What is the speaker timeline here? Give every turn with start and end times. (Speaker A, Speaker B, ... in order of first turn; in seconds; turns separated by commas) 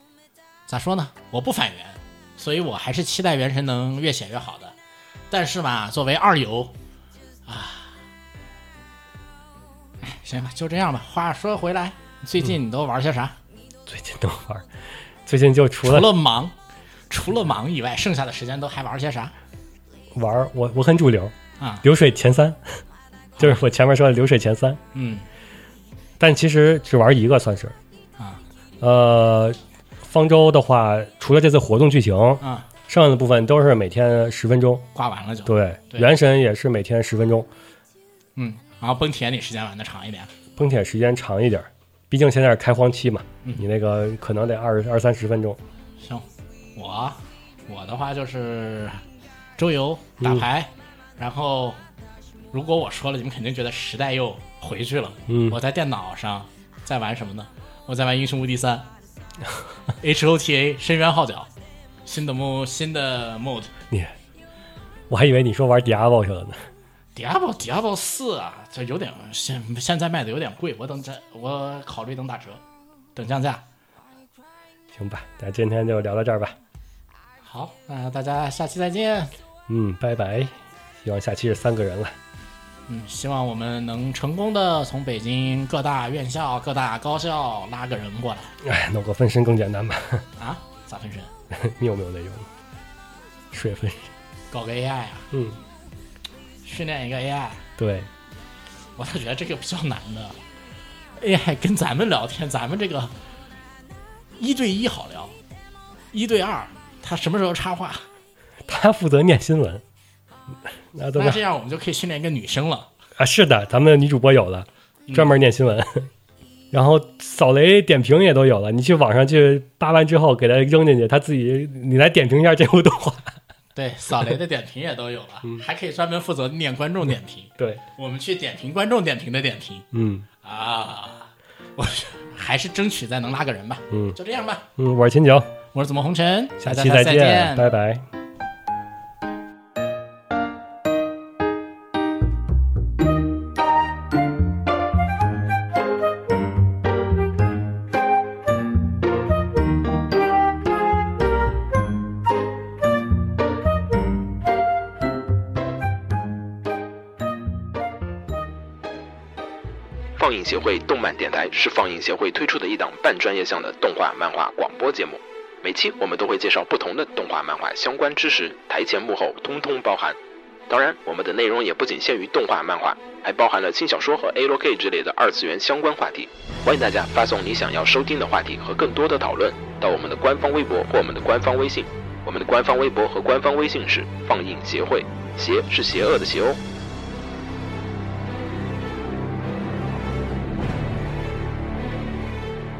Speaker A: 0.7-4.8, Speaker A: 5.3-6.7, Speaker A: 7.5-8.0, Speaker A: 10.0-13.3, Speaker B: 13.9-14.7, Speaker B: 15.2-16.1, Speaker A: 15.8-16.5, Speaker A: 17.1-19.3, Speaker B: 20.1-22.6, Speaker A: 23.4-23.6, Speaker B: 23.4-24.8, Speaker A: 24.9-25.2, Speaker B: 26.2-27.7, Speaker B: 28.8-34.9, Speaker A: 32.4-32.7, Speaker A: 34.9-36.1, Speaker B: 35.5-37.5, Speaker A: 38.4-40.3, Speaker B: 40.6-45.6, Speaker A: 46.0-49.0, Speaker A: 49.6-51.8, Speaker A: 52.5-58.9, Speaker B: 55.3-55.6, Speaker A: 60.0-61.5, Speaker A: 62.0-63.7, Speaker B: 65.1-66.6, Speaker A: 67.1-72.6, Speaker A: 73.1-73.6, Speaker B: 74.9-76.5, Speaker A: 77.4-79.3, Speaker B: 79.7-82.2, Speaker A: 82.9-88.5, Speaker B: 88.6-90.2, Speaker A: 90.4-91.3, Speaker B: 91.5-92.5, Speaker B: 93.5-94.1, Speaker A: 94.5-95.3, Speaker B: 95.3-95.6, Speaker A: 96.6-97.6, Speaker B: 97.8-98.1, Speaker A: 99.0-100.4, Speaker A: 101.2-103.1, Speaker A: 104.4-105.3, Speaker A: 106.1-108.0, Speaker B: 108.7-109.8, Speaker B: 110.9-111.4, Speaker A: 111.2-112.9, Speaker B: 113.2-116.1, Speaker B: 116.7-123.3, Speaker A: 123.8-129.9, Speaker B: 129.9-130.3, Speaker A: 130.4-134.6, Speaker B: 133.9-134.2, Speaker B: 134.8-135.5, Speaker A: 135.7-137.7, Speaker B: 136.6-138.1, Speaker C: 160.2-170.2, Speaker C: 170.7-186.6